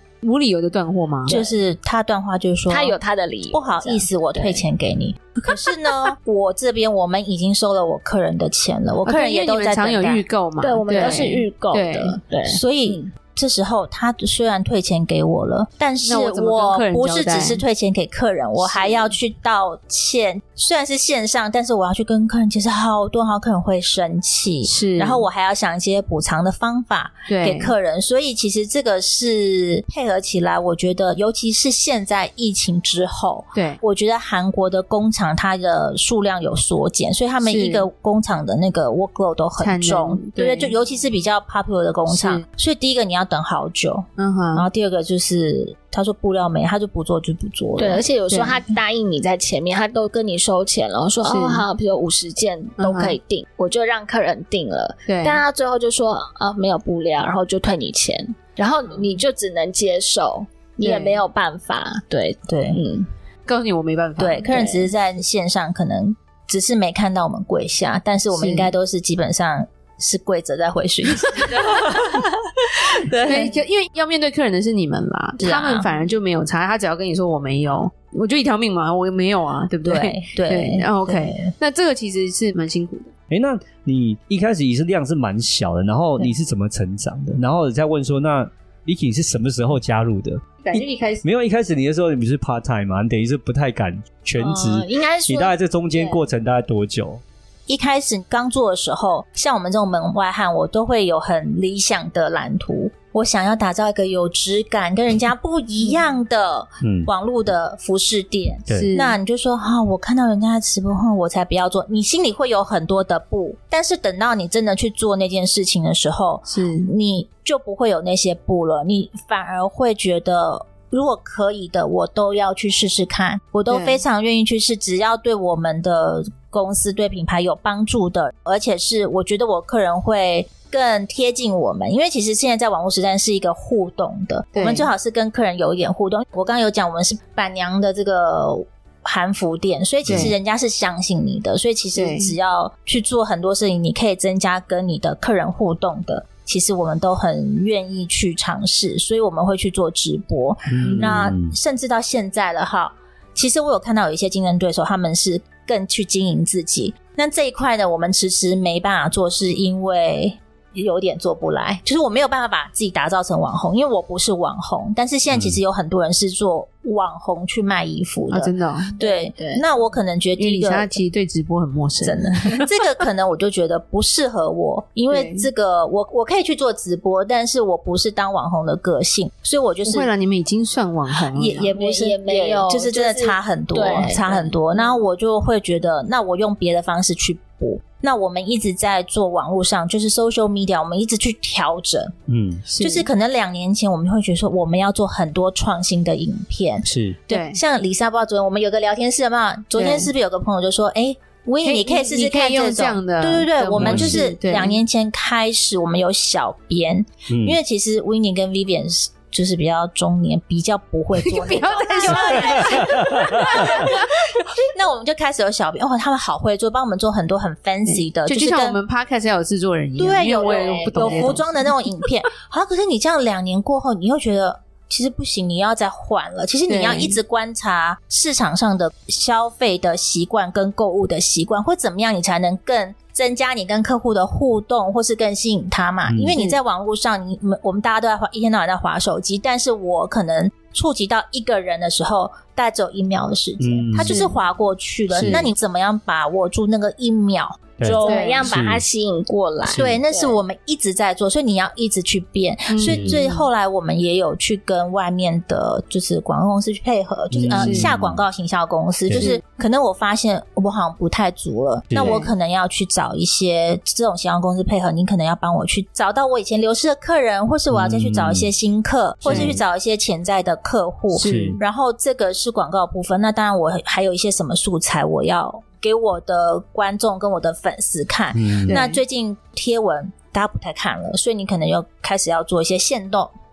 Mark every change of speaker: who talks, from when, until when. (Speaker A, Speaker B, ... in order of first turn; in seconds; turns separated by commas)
Speaker A: 0.2-1.4, Speaker B: 1.2-1.6, Speaker C: 1.3-3.0, Speaker B: 2.7-4.7, Speaker C: 3.5-10.2, Speaker A: 9.0-12.2, Speaker B: 10.6-13.1, Speaker C: 12.5-48.0, Speaker A: 16.0-17.6, Speaker B: 18.6-19.1, Speaker A: 24.6-25.3, Speaker A: 27.3-27.7, Speaker A: 33.5-33.8, Speaker A: 37.4-37.9, Speaker A: 39.6-40.7, Speaker A: 42.1-42.4, Speaker A: 44.2-44.7, Speaker B: 47.8-63.1, Speaker A: 48.3-48.6, Speaker A: 51.2-51.6, Speaker A: 52.8-53.2, Speaker A: 55.0-55.4, Speaker A: 60.8-61.2, Speaker C: 62.5-62.8, Speaker A: 63.5-64.5, Speaker C: 64.2-72.2, Speaker B: 64.5-64.9, Speaker A: 68.3-68.7, Speaker C: 73.1-73.5, Speaker A: 73.2-83.1, Speaker C: 75.4-75.9, Speaker C: 79.8-81.5, Speaker D: 83.3-97.2, Speaker A: 90.6-91.2, Speaker B: 94.4-96.2, Speaker C: 97.7-171.0, Speaker D: 106.8-107.1, Speaker D: 108.7-109.0, Speaker A: 108.7-109.2, Speaker A: 116.5-116.9, Speaker A: 123.7-124.0, Speaker A: 134.5-134.9, Speaker A: 140.1-140.3, Speaker A: 141.9-142.3, Speaker D: 150.7-151.6, Speaker A: 150.8-151.1, Speaker D: 165.3-165.6, Speaker A: 168.3-168.9, Speaker B: 169.0-169.6, Speaker A: 170.4-172.7, Speaker C: 172.0-180.1, Speaker A: 175.1-175.5, Speaker A: 179.8-181.7, Speaker C: 181.3-192.1, Speaker B: 181.7-184.6, Speaker D: 192.3-192.7, Speaker A: 192.7-193.1, Speaker C: 192.8-214.0, Speaker D: 196.8-197.2, Speaker A: 197.3-197.6, Speaker A: 199.7-200.1, Speaker A: 201.6-204.8, Speaker D: 203.8-204.2, Speaker D: 207.3-207.6, Speaker A: 211.2-214.0, Speaker D: 212.1-213.4, Speaker C: 214.6-218.8, Speaker A: 217.8-221.8, Speaker C: 220.0-247.7, Speaker B: 220.3-221.4, Speaker A: 226.7-227.2, Speaker D: 236.1-236.4, Speaker D: 243.6-244.3, Speaker A: 243.9-244.3, Speaker A: 245.1-245.5, Speaker D: 247.8-248.8, Speaker B: 247.8-250.4, Speaker A: 248.0-248.5, Speaker C: 249.7-283.3, Speaker D: 249.7-250.0, Speaker A: 252.7-253.5, Speaker D: 252.8-253.3, Speaker D: 257.3-258.2, Speaker A: 257.5-257.9, Speaker A: 259.1-259.4, Speaker D: 261.9-262.2, Speaker A: 261.9-262.3, Speaker D: 267.7-268.6, Speaker A: 269.2-269.6, Speaker D: 269.2-269.6, Speaker D: 271.1-271.6, Speaker A: 271.1-271.6, Speaker D: 278.3-278.8, Speaker A: 278.6-279.0